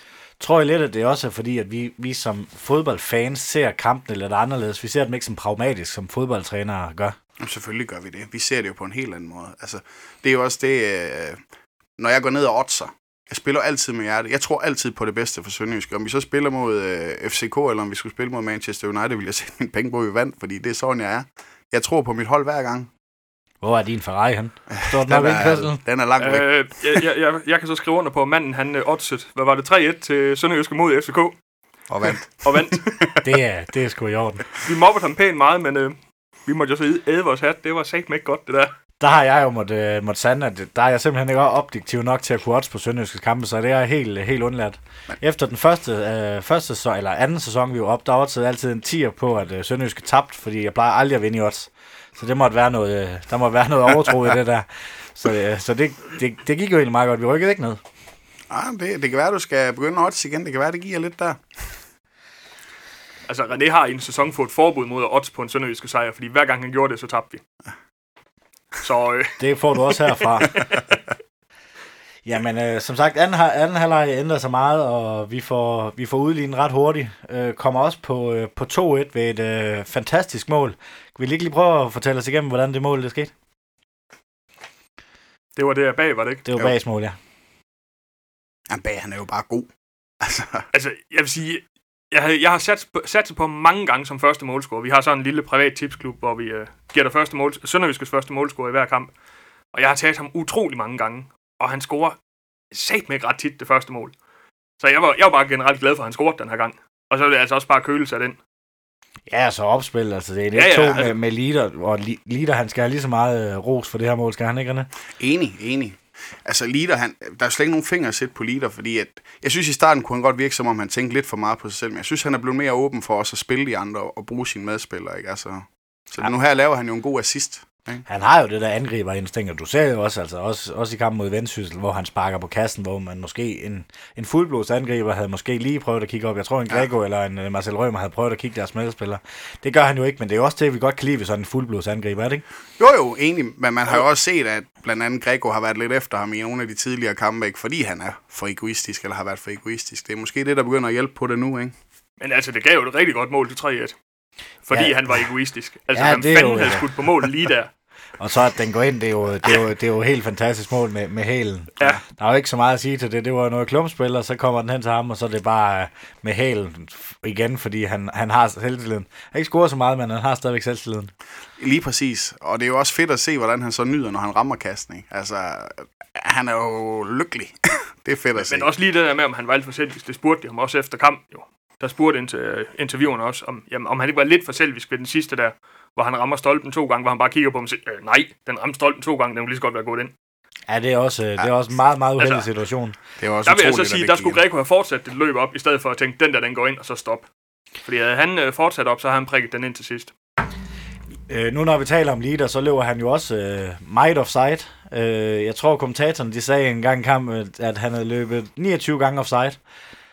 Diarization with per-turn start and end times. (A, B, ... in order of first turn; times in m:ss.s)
0:00.4-0:07.2 A
0:07.4-0:11.4 B
0:12.0-0:22.9 B
0:23.6-0:25.8 A
0:24.7-0:27.0 B
0:26.2-0:31.4 C
0:31.9-0:33.2 B
0:32.0-0:33.0 C
0:33.2-0:34.5 A
0:34.6-0:38.7 C
0:39.0-0:57.8 A
0:58.5-1:01.8 B
1:03.3-1:07.4 C
1:08.8-1:11.0 C
1:09.4-1:10.6 A
1:12.2-1:23.3 A
1:25.6-1:26.4 C
1:26.4-1:27.2 A
1:28.7-1:29.7 B
1:30.2-1:30.7 B
1:30.7-1:39.1 C
1:39.7-1:42.2 C
1:42.7-1:44.1 C
1:44.8-1:48.4 C
1:49.3-1:54.9 A
1:50.5-1:51.2 C
1:55.2-2:08.0 B
2:08.1-2:22.4 A
2:22.8-2:31.7 B
2:32.2-2:34.0 C
2:34.6-2:37.7 C
2:34.7-2:35.0 A
2:35.9-2:36.9 A
2:38.2-2:51.1 A
2:51.6-2:58.7 B
2:58.4-3:10.1 C
3:10.7-3:13.0 A
3:12.2-3:12.5 C
3:13.2-3:14.4 B
3:13.5-3:17.3 C
3:17.8-3:20.1 C
3:21.3-3:29.6 A